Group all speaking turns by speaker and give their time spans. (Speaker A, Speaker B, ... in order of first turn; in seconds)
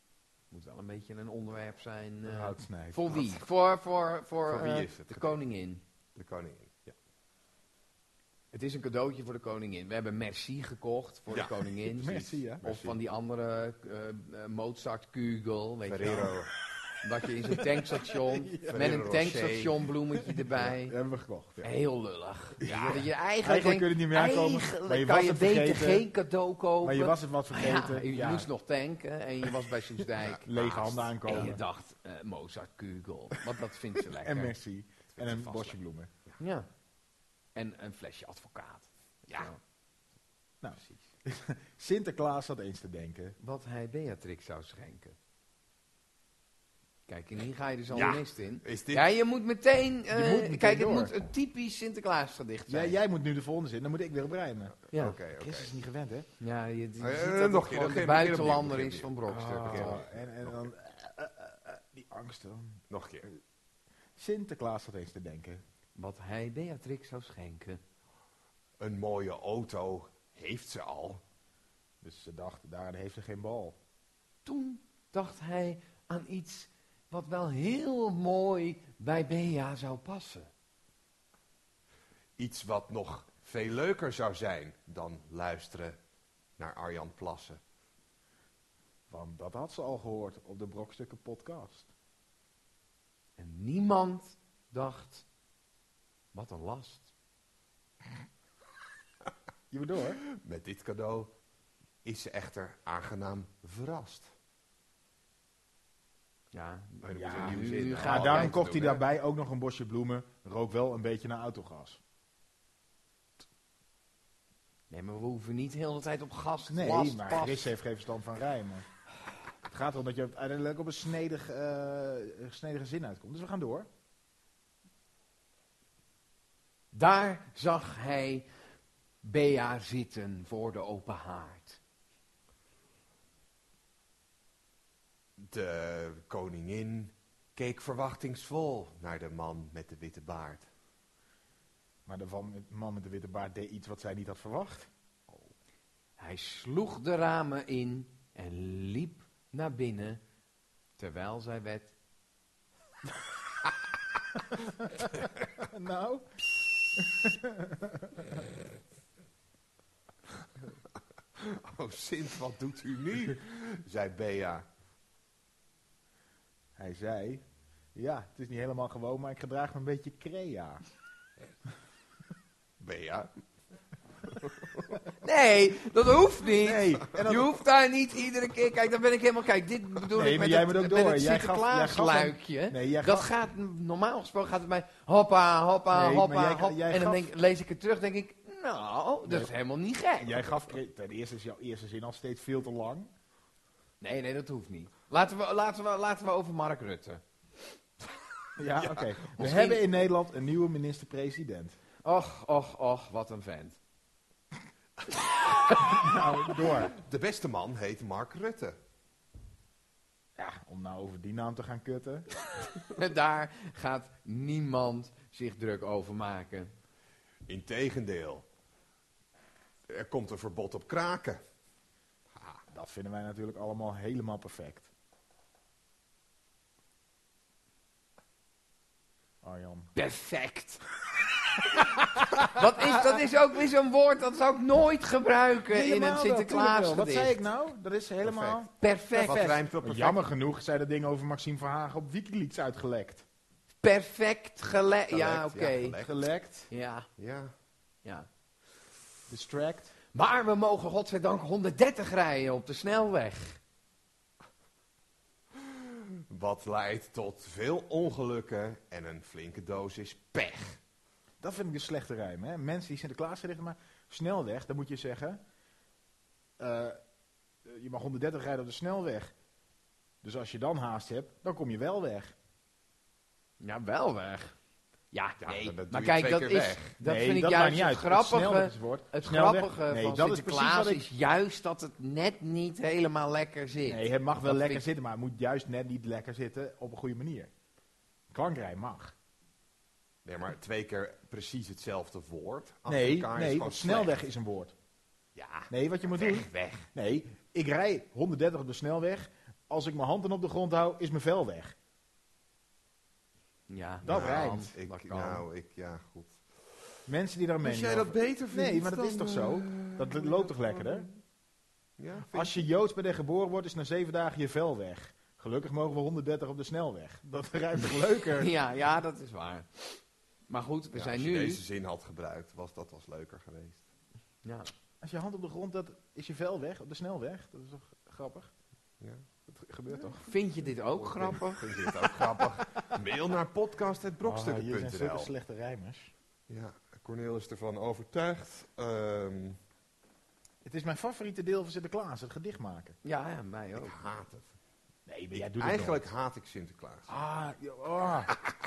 Speaker A: 0.5-5.8, 8.5-16.3, 17.0-20.9, 21.6-30.5, 31.2-34.5, 36.4-36.7, 37.5-39.6, 43.4-45.1, 47.1-53.0, 54.9-55.2, 56.4-60.0, 66.0-67.8, 74.4-80.5, 93.4-95.2, 96.3-97.1, 106.5-109.0, 114.9-117.7, 126.9-128.5, 129.2-131.8, 146.2-150.2, 151.0-151.9, 175.2-190.6, 194.0-197.2, 199.4-199.7, 202.0-203.8, 212.9-216.7, 229.9-230.8, 232.5-237.4, 238.8-239.6, 243.8-246.0, 246.7-247.1, 248.0-248.3, 250.1-253.6, 273.6-274.5, 275.1-284.8, 303.7-305.4, 318.4-321.6, 324.4-324.7, 330.2-331.6, 343.0-343.9
Speaker B: 2.2-3.3, 11.9-12.7, 18.3-19.1, 20.2-21.7, 22.6-26.1, 26.8-28.5, 30.4-31.6, 34.1-36.1, 40.6-43.4, 50.1-51.1, 52.7-54.8, 55.3-56.3, 59.3-62.8, 64.2-65.6, 72.0-73.8, 89.1-91.9, 99.7-100.2, 107.2-112.0, 116.7-118.9, 119.6-123.9, 142.1-144.9, 154.8-156.3, 156.9-158.4, 166.8-167.4, 167.9-170.8, 176.6-177.6, 180.1-183.3, 185.9-187.3, 189.2-189.5, 190.2-193.1, 198.6-201.8, 205.8-206.9, 210.4-212.3, 222.7-224.9, 229.4-229.9, 235.7-238.7, 239.3-243.2, 246.0-246.7, 249.3-249.9, 261.4-265.4, 266.6-267.0, 267.6-269.3, 270.2-272.3, 277.0-281.1, 283.9-287.5, 288.3-289.1, 292.9-294.7, 295.7-301.8, 304.1-304.7, 307.1-311.1, 312.3-318.5, 325.0-328.5, 329.4-330.3, 334.2-336.1, 340.6-343.0, 345.1-346.1, 347.1-348.3
Speaker C: 4.5-5.4, 6.2-6.9, 11.3-12.9, 15.9-16.6, 18.7-19.8, 22.6-23.1, 30.2-31.5, 35.1-35.7, 47.9-49.0, 54.8-55.7, 57.0-59.1, 59.6-60.1, 62.9-63.3, 68.8-71.2, 82.4-86.0, 86.6-87.6, 100.2-101.3, 102.0-104.3, 107.0-109.0, 135.4-140.7, 161.3-164.6, 172.8-173.3, 174.3-174.9, 198.6-199.8, 206.6-208.8, 217.5-218.4, 219.9-221.4, 238.2-240.2, 245.1-246.2, 247.2-247.5, 255.6-260.8, 275.4-276.9, 290.2-294.2, 295.3-296.9, 304.1-306.5, 307.6-311.1, 312.0-312.7, 320.9-323.9, 331.0-335.3, 336.5-339.6, 343.8-344.5, 345.3-347.1